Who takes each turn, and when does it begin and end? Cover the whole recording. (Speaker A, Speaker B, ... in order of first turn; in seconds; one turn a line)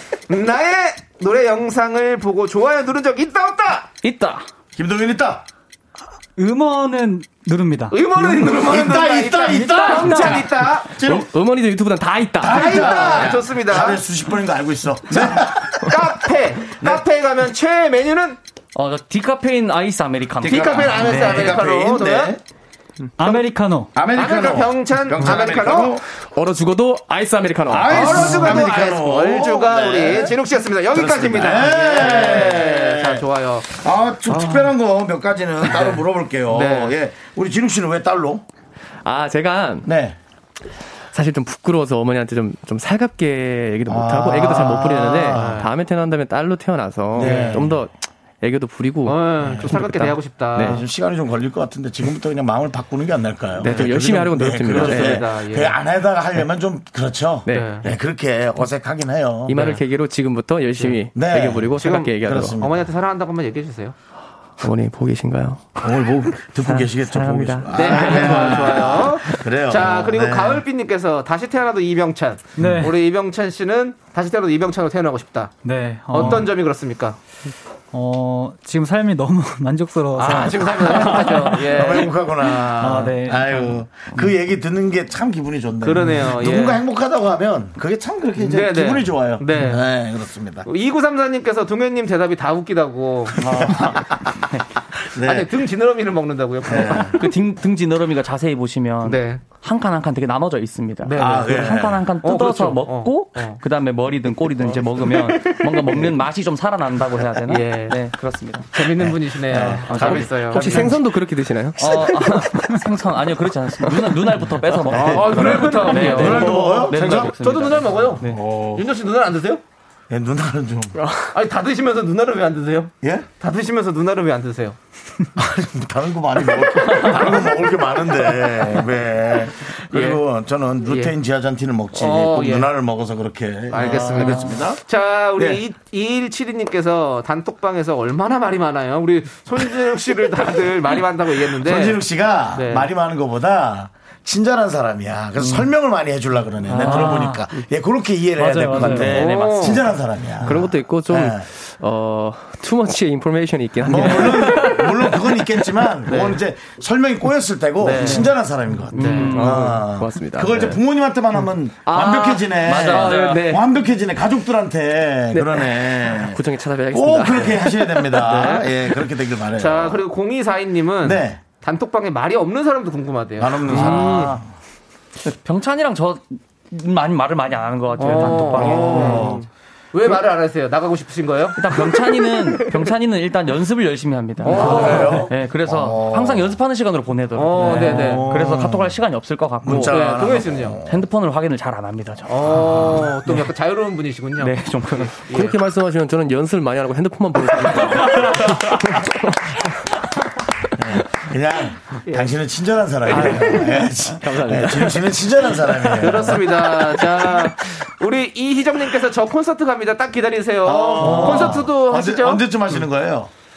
Speaker A: 0.3-3.9
Speaker B: 4.0-4.5
Speaker C: 4.7-5.5
Speaker D: 6.4-8.5
Speaker A: 7.9-10.9
Speaker C: 8.5-11.3
Speaker D: 9.4-10.4
Speaker E: 10.9-13.2
Speaker C: 12.4-16.0
Speaker A: 12.4-14.0
Speaker A: 15.8-18.4
Speaker B: 18.7-21.5
Speaker C: 20.4-22.4
Speaker A: 20.4-22.3
Speaker D: 23.2-23.9
Speaker A: 23.2-23.4
Speaker C: 23.9-26.0
Speaker A: 24.1-26.0
Speaker E: 26.1-28.1
Speaker C: 27.7-30.4
Speaker A: 27.9-33.7
Speaker D: 28.0-28.6
Speaker C: 30.9-38.4
Speaker A: 34.3-34.7
Speaker A: 36.5-36.9
Speaker E: 39.0-39.9
Speaker C: 39.8-40.2
Speaker E: 41.1-50.8
Speaker C: 43.9-45.6
Speaker A: 45.3-45.7
Speaker C: 47.1-47.8
Speaker A: 47.2-47.7
Speaker A: 49.0-50.8
Speaker C: 50.5-59.6
Speaker E: 53.6-55.2
Speaker A: 54.7-55.8
Speaker E: 57.5-57.7
Speaker A: 57.5-57.9
Speaker E: 59.5-62.6
Speaker C: 61.1-62.9
Speaker A: 61.7-63.9
Speaker E: 64.6-65.7
Speaker C: 65.8-70.6
Speaker E: 66.7-68.6
Speaker A: 67.7-75.5
Speaker D: 72.6-73.0
Speaker D: 75.6-76.5
Speaker A: 76.1-77.2
Speaker D: 77.9-81.8
Speaker A: 80.1-82.6
Speaker C: 81.4-90.7
Speaker D: 82.6-83.8
Speaker A: 85.8-86.8
Speaker A: 88.4-89.9
Speaker A: 90.6-93.8
Speaker C: 93.4-94.3
Speaker C: 95.1-95.5
Speaker A: 95.2-97.2
Speaker C: 96.7-97.2
Speaker B: 96.9-108.7
Speaker A: 99.0-99.4
Speaker A: 101.0-103.6
Speaker C: 101.2-102.1
Speaker A: 105.4-106.0
Speaker A: 107.5-108.0
Speaker A: 108.7-110.9
Speaker C: 109.0-111.0
Speaker B: 109.8-110.5
Speaker E: 109.9-112.4
Speaker B: 111.8-118.4
Speaker C: 114.9-117.3
Speaker A: 114.9-119.6
Speaker C: 118.2-118.8
Speaker C: 120.1-121.0
Speaker E: 121.0-121.3
Speaker A: 121.3-124.8
Speaker C: 123.0-123.3
Speaker C: 125.4-134.8
Speaker B: 126.9-127.4
Speaker A: 129.9-130.2
Speaker A: 130.8-131.1
Speaker A: 131.9-132.7
Speaker A: 133.7-142.9
Speaker B: 133.8-134.4
Speaker C: 135.4-135.6
Speaker C: 141.5-151.5
Speaker D: 146.7-147.5
Speaker B: 146.8-147.1
Speaker D: 148.4-149.2
Speaker B: 148.5-149.8
Speaker A: 148.8-149.9
Speaker E: 150.4-155.2
Speaker C: 153.8-170.0
Speaker B: 154.0-154.7
Speaker B: 157.8-158.3
Speaker B: 158.9-159.8
Speaker A: 158.9-159.3
Speaker E: 159.3-160.8
Speaker B: 161.8-163.6
Speaker E: 162.7-163.7
Speaker E: 165.3-168.8
Speaker A: 169.6-174.3
Speaker C: 171.0-171.4
Speaker C: 173.4-174.4
Speaker B: 173.7-174.4
Speaker B: 175.3-179.4
Speaker A: 178.0-181.6
Speaker C: 178.5-179.4
Speaker B: 181.6-190.2
Speaker A: 184.4-185.3
Speaker C: 184.4-186.5
Speaker A: 187.3-188.3
Speaker C: 187.6-188.9
Speaker C: 189.6-191.0
Speaker A: 189.7-190.8
Speaker B: 190.8-193.3
Speaker A: 192.3-195.6
Speaker C: 192.7-193.0
Speaker B: 194.4-195.2
Speaker E: 195.3-199.1
Speaker C: 200.8-207.2
Speaker A: 202.1-202.3
Speaker A: 203.1-203.8
Speaker B: 203.1-203.8
Speaker E: 204.1-205.7
Speaker A: 206.0-212.4
Speaker C: 210.6-213.3
Speaker D: 211.0-211.3